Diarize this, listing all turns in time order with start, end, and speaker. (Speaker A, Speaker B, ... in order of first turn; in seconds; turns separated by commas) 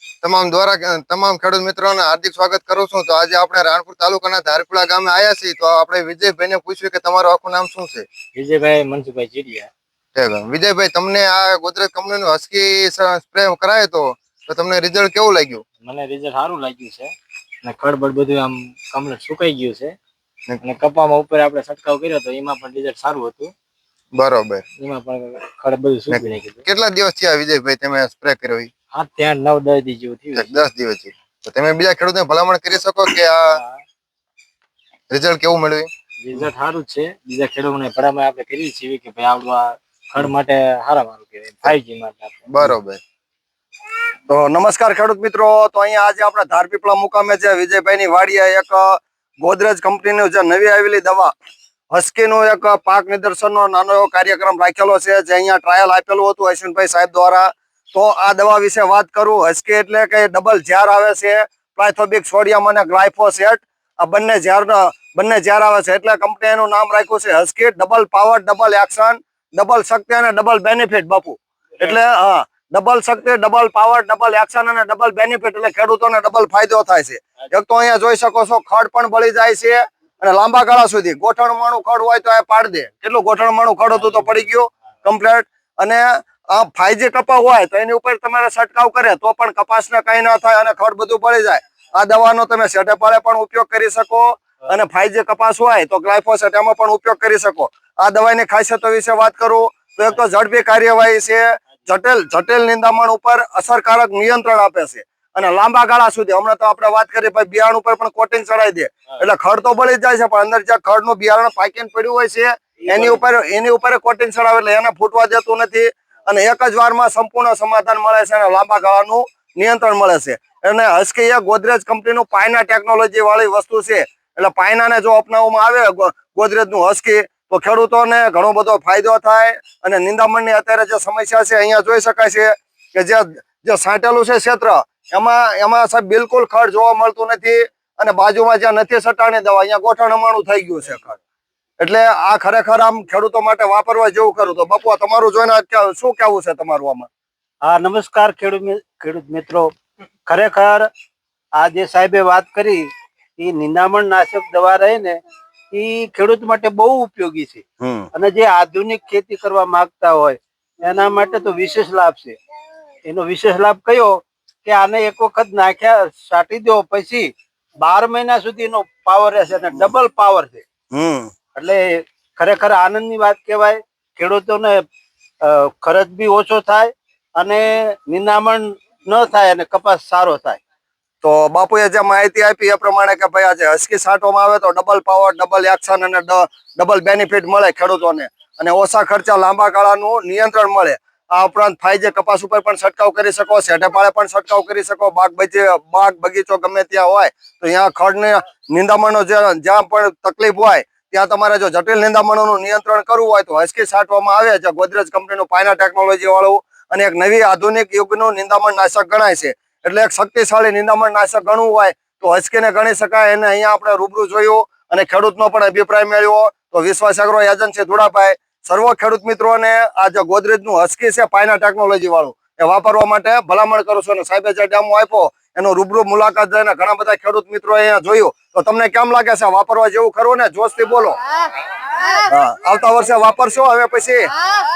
Speaker A: 0.2-1.3, Speaker B: 0.9-2.0, Speaker B: 2.6-3.8, Speaker A: 3.9-5.5, Speaker B: 5.0-6.6, Speaker A: 6.2-7.0, Speaker B: 7.2-8.1, Speaker C: 8.3-9.7, Speaker B: 10.2-11.4, Speaker A: 10.7-10.9, Speaker A: 11.4-15.6, Speaker C: 15.8-17.1, Speaker C: 17.6-19.9, Speaker C: 20.6-23.5, Speaker A: 24.2-24.6, Speaker C: 24.8-26.6, Speaker A: 26.1-28.7, Speaker C: 28.9-30.5, Speaker A: 30.4-33.4, Speaker C: 33.4-33.8, Speaker A: 35.1-35.9, Speaker C: 36.2-42.8, Speaker A: 42.5-43.0, Speaker B: 44.3-51.3, Speaker B: 51.9-141.2, Speaker C: 83.9-84.5, Speaker B: 141.8-147.1, Speaker D: 147.6-149.7, Speaker D: 150.3-150.9, Speaker D: 151.6-155.2, Speaker D: 155.7-162.4, Speaker B: 157.8-158.1, Speaker D: 163.1-170.7, Speaker B: 170.9-171.3, Speaker D: 171.5-174.8, Speaker D: 175.4-180.6, Speaker B: 181.2-231.2, Speaker B: 232.2-234.3